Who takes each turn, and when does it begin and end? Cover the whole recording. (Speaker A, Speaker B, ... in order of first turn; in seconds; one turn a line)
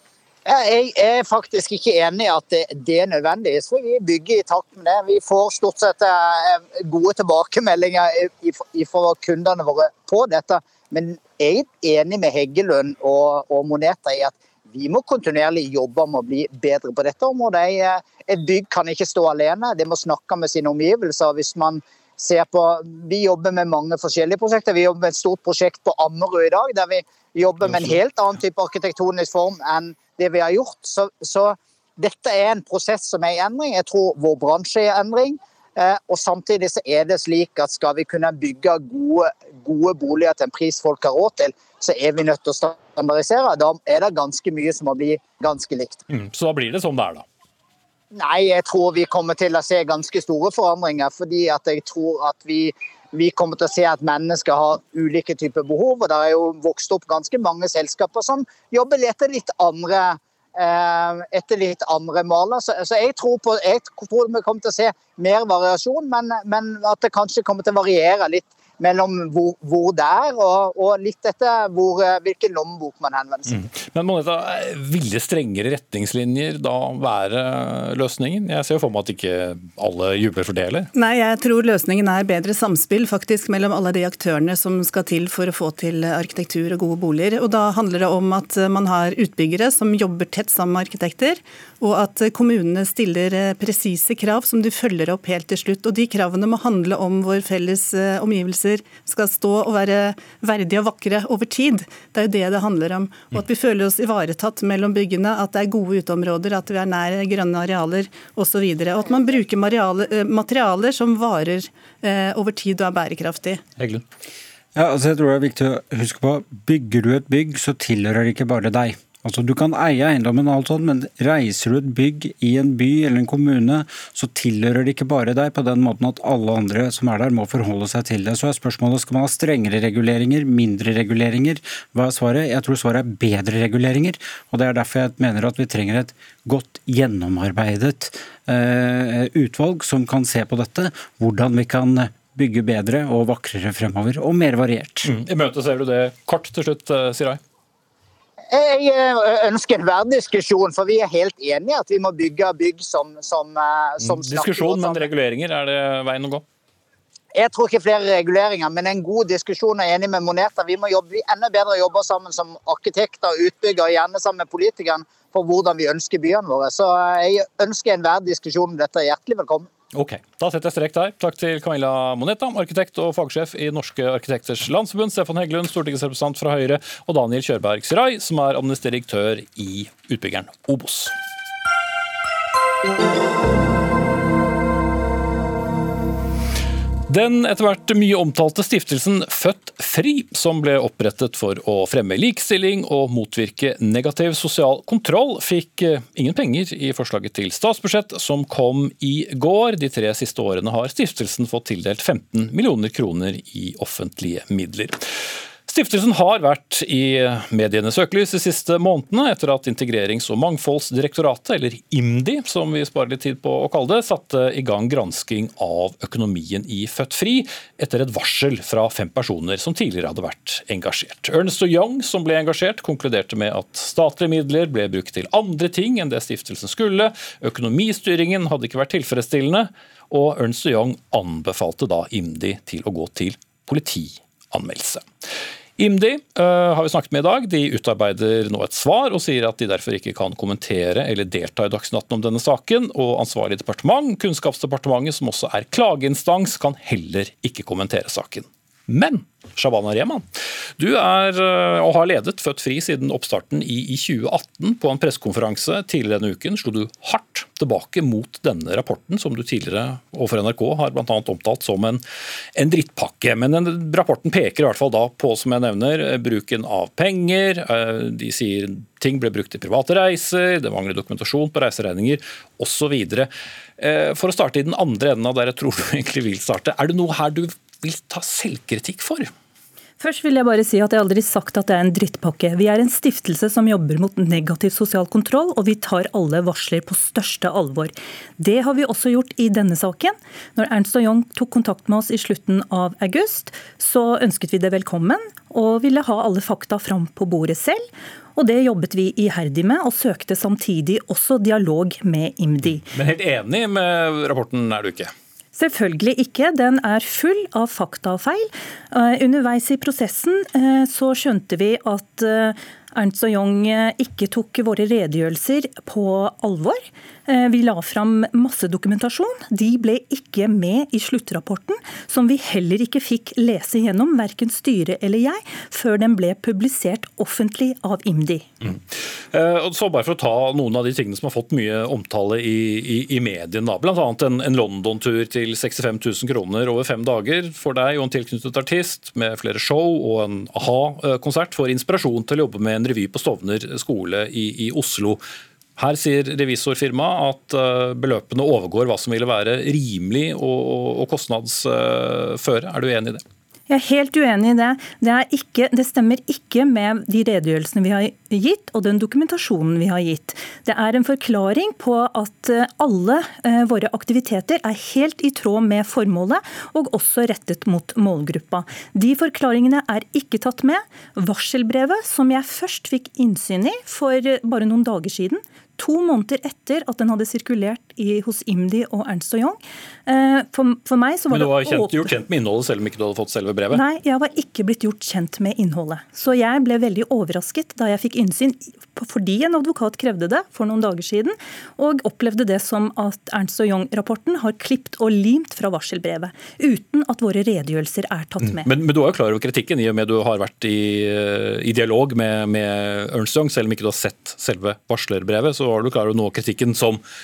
Speaker A: 0.5-46.0
Speaker B: 27.7-28.0
Speaker B: 46.1-47.2
Speaker A: 48.1-73.6
Speaker B: 73.5-80.9
Speaker C: 81.0-113.6
Speaker B: 113.8-114.0
Speaker D: 114.8-145.1
Speaker B: 145.1-147.4
Speaker A: 148.5-155.1
Speaker B: 154.0-156.4
Speaker A: 157.3-169.7
Speaker B: 169.9-181.1
Speaker B: 187.1-205.1
Speaker B: 205.7-235.1
Speaker B: 235.8-250.3
Speaker B: 250.8-262.0
Speaker B: 262.6-279.3
Speaker E: 280.0-302.9
Speaker B: 302.9-305.1
Speaker E: 305.5-328.5
Speaker B: 328.6-345.2
Speaker B: 345.8-353.2
Speaker E: 353.7-382.1
Speaker B: 381.3-383.8
Speaker E: 383.7-398.7
Speaker B: 398.4-407.0